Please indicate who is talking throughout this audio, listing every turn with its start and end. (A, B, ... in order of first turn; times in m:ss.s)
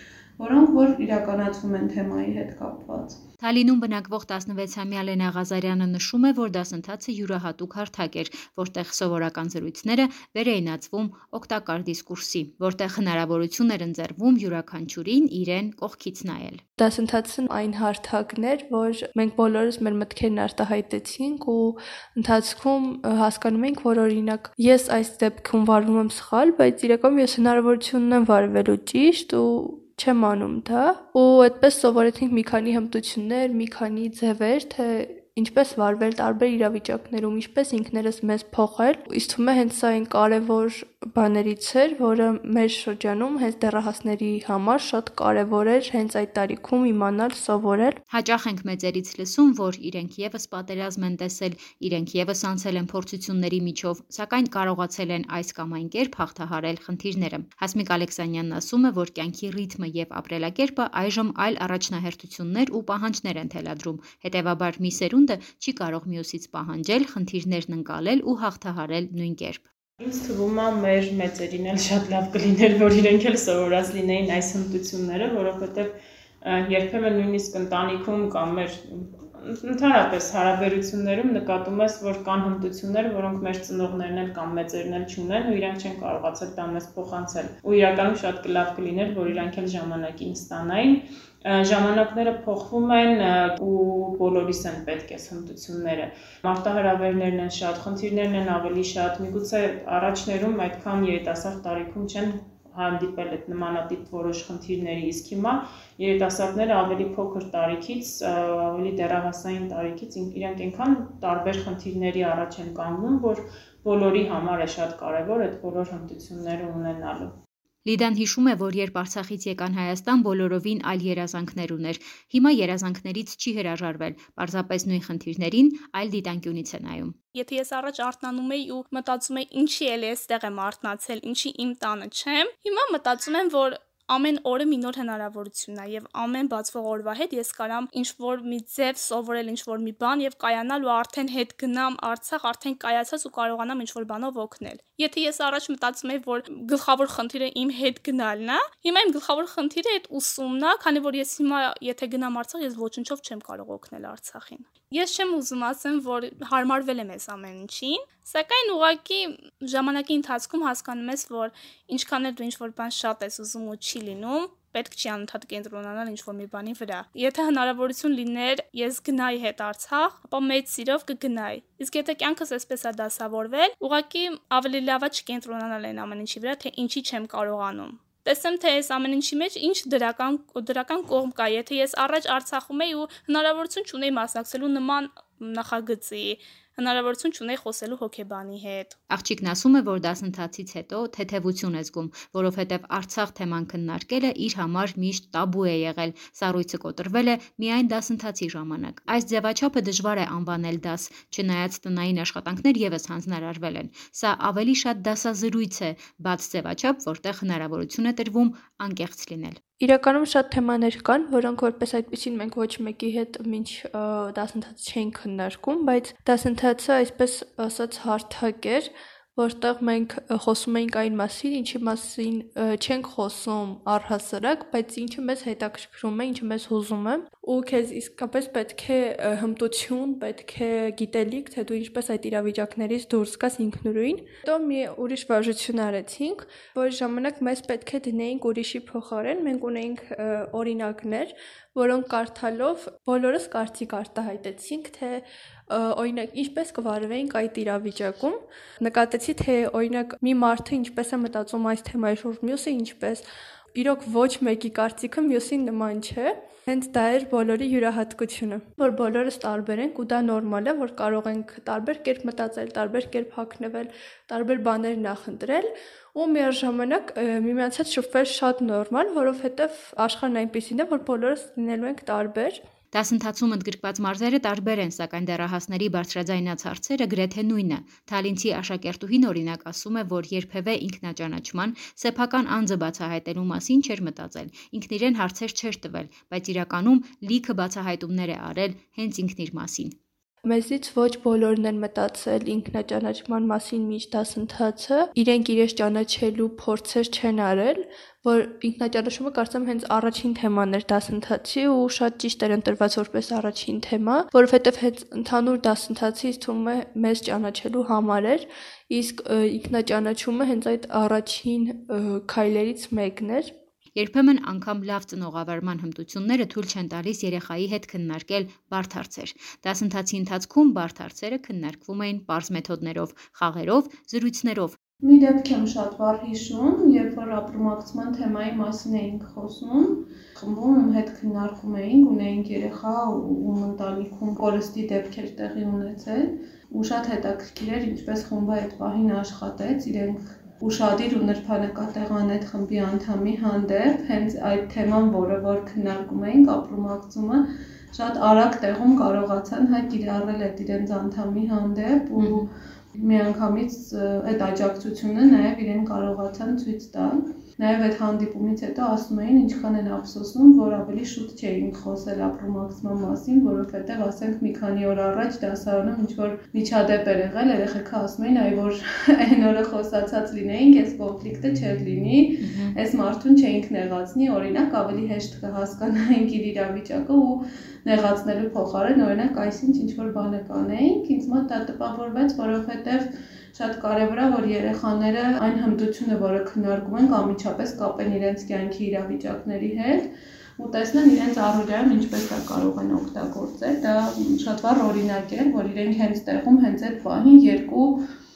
0:00.4-0:03.2 A
0:03.4-0:16.6 B
0:16.8-0:48.0 C
0:48.1-1:09.6 B
1:10.0-1:15.9 D
1:16.4-1:57.3 D
1:57.8-2:07.1 B
2:07.4-3:09.0 E
3:09.1-3:29.6 B
3:29.8-4:13.2 C
4:13.8-4:32.6 C
4:32.9-4:50.0 B
4:50.4-5:13.5 C
5:14.0-5:24.8 B
5:25.0-5:47.4 A
5:48.0-5:52.4 A
5:52.2-5:52.4 C
5:53.0-6:30.1 A
6:12.4-6:12.7 B
6:30.6-6:38.0 A